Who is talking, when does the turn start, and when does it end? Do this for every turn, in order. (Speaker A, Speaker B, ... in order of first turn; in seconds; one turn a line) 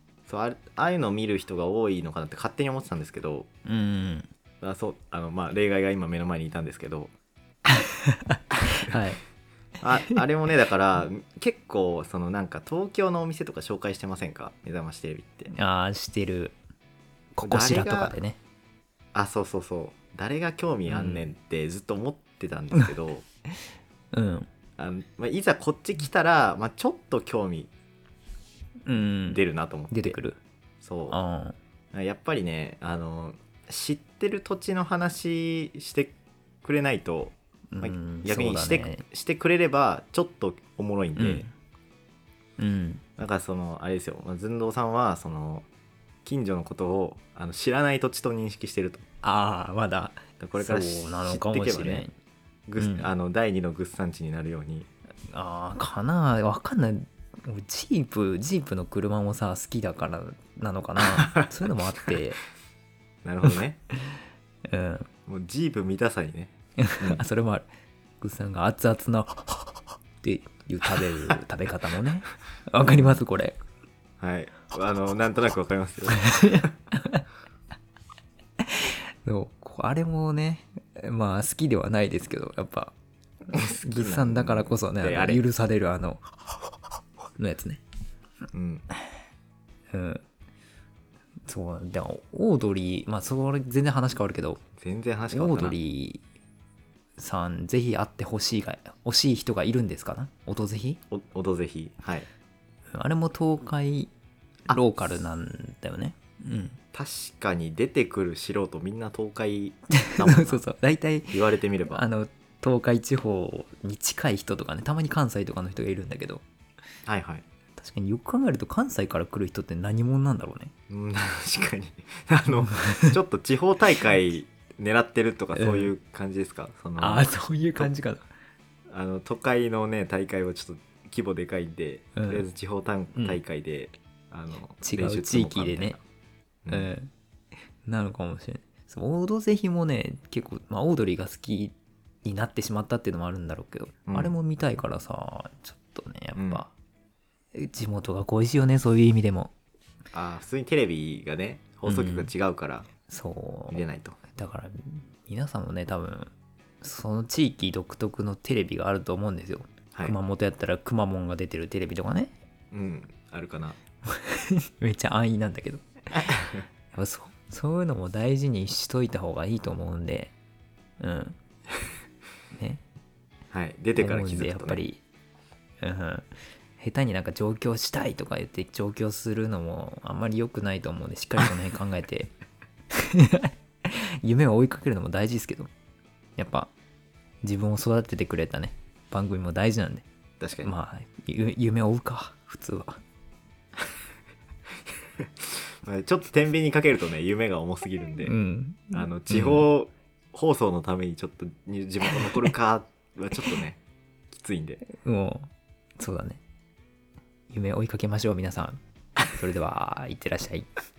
Speaker A: 0.3-3.5
Speaker B: 3.6-4.3
Speaker A: 4.6-7.1
Speaker B: 7.7-9.2
Speaker A: 9.8-15.5
Speaker B: 15.5-16.5
Speaker B: 17.4-18.4
Speaker A: 17.4-18.1
Speaker A: 19.1-23.2
Speaker B: 20.9-21.3
Speaker B: 24.1-24.5
Speaker A: 24.8-27.7
Speaker B: 28.9-30.4
Speaker A: 29.3-30.2
Speaker A: 30.8-31.2
Speaker B: 31.1-31.6
Speaker A: 31.9-41.4
Speaker B: 37.7-39.0
Speaker B: 41.1-41.5
Speaker B: 42.6-43.0
Speaker A: 43.2-45.7
Speaker A: 46.2-49.0
Speaker B: 49.2-52.1
Speaker A: 50.4-52.1
Speaker A: 52.7-54.9
Speaker B: 52.8-53.1
Speaker B: 55.3-62.4
Speaker A: 61.1-61.5
Speaker A: 63.2-63.8
Speaker B: 64.7-65.1
Speaker A: 65.3-67.2
Speaker B: 66.8-67.7
Speaker B: 68.2-73.5
Speaker A: 72.8-73.2
Speaker A: 74.2-76.7
Speaker B: 76.2-77.2
Speaker B: 78.6-82.9
Speaker A: 83.5-85.4
Speaker B: 83.5-86.2
Speaker B: 87.4-87.8
Speaker A: 88.5-88.8
Speaker B: 89.9-90.2
Speaker B: 91.5-94.6
Speaker A: 94.8-95.8
Speaker B: 95.3-96.2
Speaker B: 97.2-101.0
Speaker A: 101.1-102.3
Speaker B: 102.9-104.1
Speaker B: 104.7-106.8
Speaker A: 106.9-110.6
Speaker B: 110.0-111.4
Speaker A: 111.3-112.0
Speaker B: 111.9-116.4
Speaker A: 117.0-117.4
Speaker B: 117.8-120.7
Speaker A: 120.9-127.9
Speaker B: 122.8-123.1
Speaker B: 125.5-125.9
Speaker B: 127.0-128.3
Speaker A: 128.9-136.0
Speaker B: 132.1-132.4
Speaker B: 133.1-133.4
Speaker B: 134.8-136.0
Speaker A: 136.6-136.9
Speaker B: 136.7-137.1
Speaker B: 137.8-146.7
Speaker A: 144.1-144.3
Speaker A: 146.3-146.6
Speaker B: 147.5-149.5
Speaker A: 150.1-152.8
Speaker B: 151.8-152.3
Speaker B: 153.1-153.8
Speaker A: 153.7-154.2
Speaker B: 154.3-156.3
Speaker B: 156.8-162.3
Speaker A: 162.7-163.8
Speaker B: 164.1-166.3
Speaker A: 166.1-166.6
Speaker B: 166.9-170.3
Speaker B: 171.0-171.4
Speaker B: 172.5-172.8
Speaker A: 173.5-174.8
Speaker B: 173.9-175.0
Speaker B: 175.8-176.3
Speaker B: 176.8-182.3
Speaker B: 182.9-185.7
Speaker B: 186.4-186.7
Speaker B: 187.4-190.1
Speaker A: 190.4-190.7
Speaker B: 190.6-193.0
Speaker A: 195.2-198.3
Speaker B: 198.2-199.7
Speaker A: 198.9-204.8
Speaker B: 204.9-206.4
Speaker B: 207.5-210.7